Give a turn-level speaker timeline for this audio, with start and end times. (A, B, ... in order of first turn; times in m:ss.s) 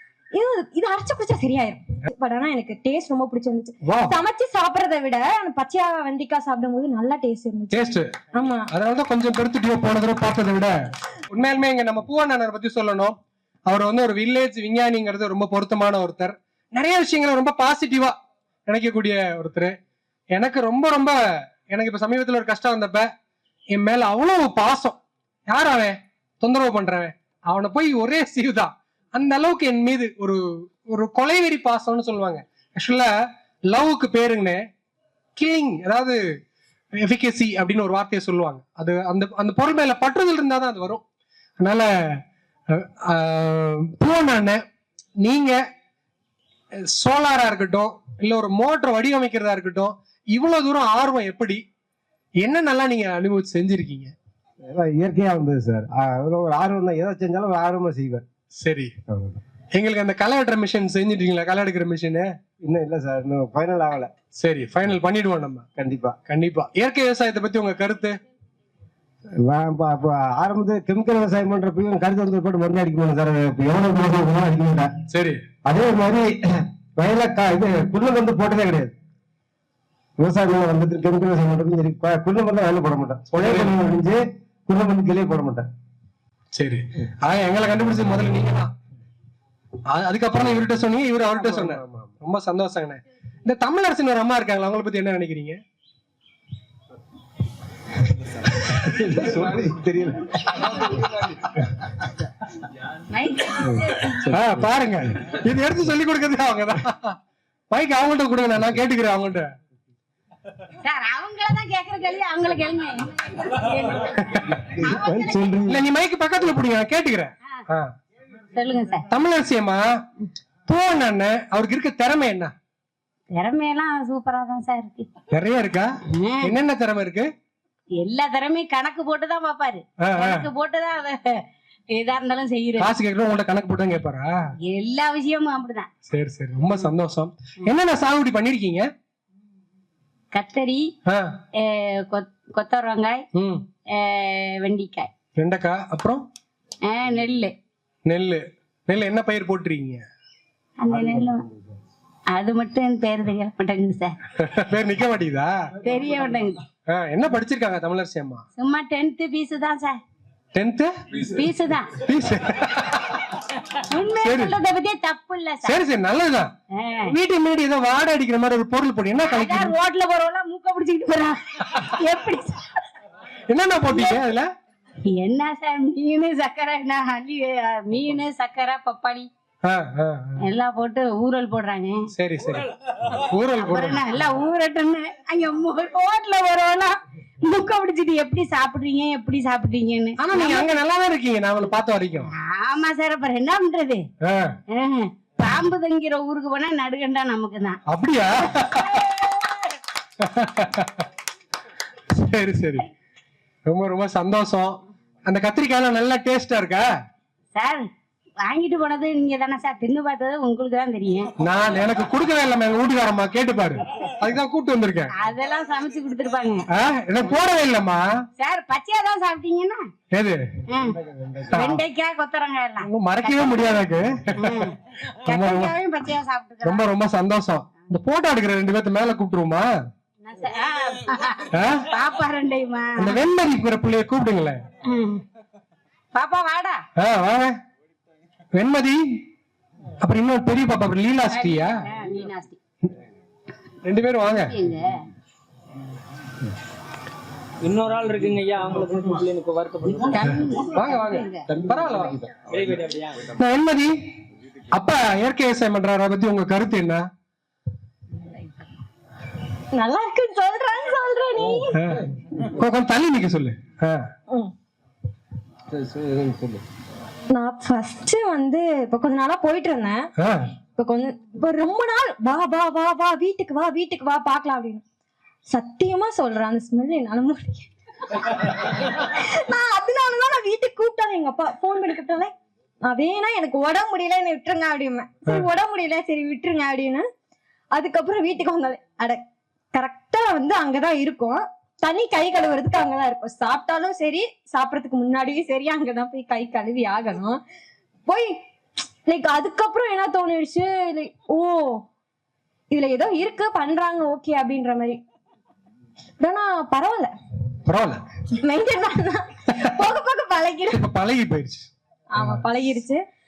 0:00.3-0:08.7 A
0:03.8-0:04.2 B
0:07.7-0:08.2 B
0:08.7-0:10.8 B
0:11.3-0:13.2 B
0:13.7-0:18.2 B
0:18.7-0:19.8 B
0:20.3-0:21.2 B
0:21.7-0:23.1 B
0:23.7-0:33.1 B
0:33.7-0:34.6 B
0:35.4-0:36.2 B
0:37.0-0:41.0 B
0:41.6-0:42.2 B
0:42.7-0:44.6 B
0:45.2-0:45.6 B
0:46.9-0:51.6 B
0:52.4-0:54.1 B
0:54.7-0:58.2 C
0:58.6-0:58.9 B
0:59.1-0:59.4 C
0:59.7-1:02.3 B
1:02.6-1:04.1 C
1:04.4-1:05.7 B
1:05.8-1:06.2 C
1:06.3-1:08.2 B
1:09.4-1:14.9 C
1:15.1-1:15.4 B
1:15.6-1:18.9 C
1:20.2-1:25.7 C
1:23.3-1:23.8 B
1:26.5-1:28.7 B
1:29.9-1:35.6 B
1:31.3-1:32.1 C
1:38.8-1:40.3 C
1:43.1-1:44.2 D
1:43.6-1:44.7 C
1:44.3-1:47.2 B
1:47.7-1:49.5 B
1:50.8-1:54.4 D
1:54.6-1:55.8 C
1:55.7-1:57.9 B
1:58.5-1:59.1 D
1:59.1-1:59.8 B
2:00.7-2:02.5 B
2:03.3-2:05.1 D
2:05.3-2:05.9 B
2:06.2-2:06.6 D
2:06.4-2:07.3 B
2:08.0-2:12.9 D
2:10.0-2:10.5 B
2:12.8-2:14.4 B
2:14.7-2:15.9 D
2:16.1-2:18.9 B
2:20.3-2:20.9 D
2:21.6-2:23.2 D
2:23.4-2:23.6 B
2:23.9-2:25.1 D
2:25.4-2:26.2 B
2:26.9-2:27.6 D
2:28.1-2:30.0 B
2:30.8-2:31.4 D
2:30.9-2:31.6 C
2:32.3-2:34.2 D
2:34.4-2:35.6 B
2:35.8-2:36.6 D
2:36.9-2:38.4 B
2:38.6-2:40.0 D
2:40.6-2:40.9 B
2:41.3-2:41.9 D
2:42.0-2:43.3 B
2:43.8-2:45.8 D
2:44.2-2:44.6 B
2:45.6-2:46.5 B
2:46.8-2:47.1 D
2:47.1-2:49.8 B
2:49.2-2:52.7 D
2:53.5-2:54.5 B
2:55.1-2:59.3 D
2:59.6-3:00.4 B
3:00.4-3:02.1 D
3:02.1-3:04.0 B
3:03.6-3:10.7 D
3:10.2-3:12.3 B
3:12.4-3:14.1 D
3:14.2-3:14.6 B
3:14.7-3:17.8 D
3:17.9-3:19.2 B
3:20.2-3:21.0 B
3:22.1-3:22.9 B
3:23.7-3:26.9 B
3:27.6-3:27.9 D
3:28.4-3:31.3 D
3:31.4-3:35.1 B
3:35.1-3:36.7 D
3:36.7-3:38.1 B
3:38.4-3:39.8 D
3:40.1-3:40.4 B
3:40.7-3:41.0 D
3:40.8-3:41.6 C
3:41.5-3:41.8 B
3:41.6-3:43.8 D
3:42.8-3:44.7 B
3:44.4-3:46.9 D
3:45.2-3:45.7 B
3:46.6-3:49.7 B
3:50.2-3:53.2 D
3:51.5-3:51.9 B
3:53.0-3:54.6 B
3:54.9-3:55.2 D
3:56.1-3:56.8 D
3:57.0-3:57.6 B
3:58.5-3:59.2 B
4:00.0-4:01.8 B
4:01.3-4:02.6 D
4:03.8-4:04.6 B
4:04.3-4:05.0 D
4:07.7-4:09.8 E
4:09.8-4:11.5 D
4:10.8-4:12.2 B
4:13.2-4:13.9 B
4:14.7-4:17.0 B
4:19.8-4:21.8 A
4:21.8-4:22.0 B
4:22.6-4:24.0 B
4:25.7-4:26.6 C
4:27.3-4:30.1 A
4:30.2-4:30.4 B
4:30.8-4:34.8 A
4:35.5-4:42.3 A
4:42.8-4:47.0 A
4:47.7-4:49.2 A
4:49.7-4:57.4 A
4:58.1-4:58.4 A
4:59.0-5:01.8 A
5:02.7-5:05.0 A
5:06.2-5:07.1 A
5:07.7-5:08.0 B
5:08.4-5:10.8 A
5:10.7-5:11.7 B
5:12.1-5:13.0 A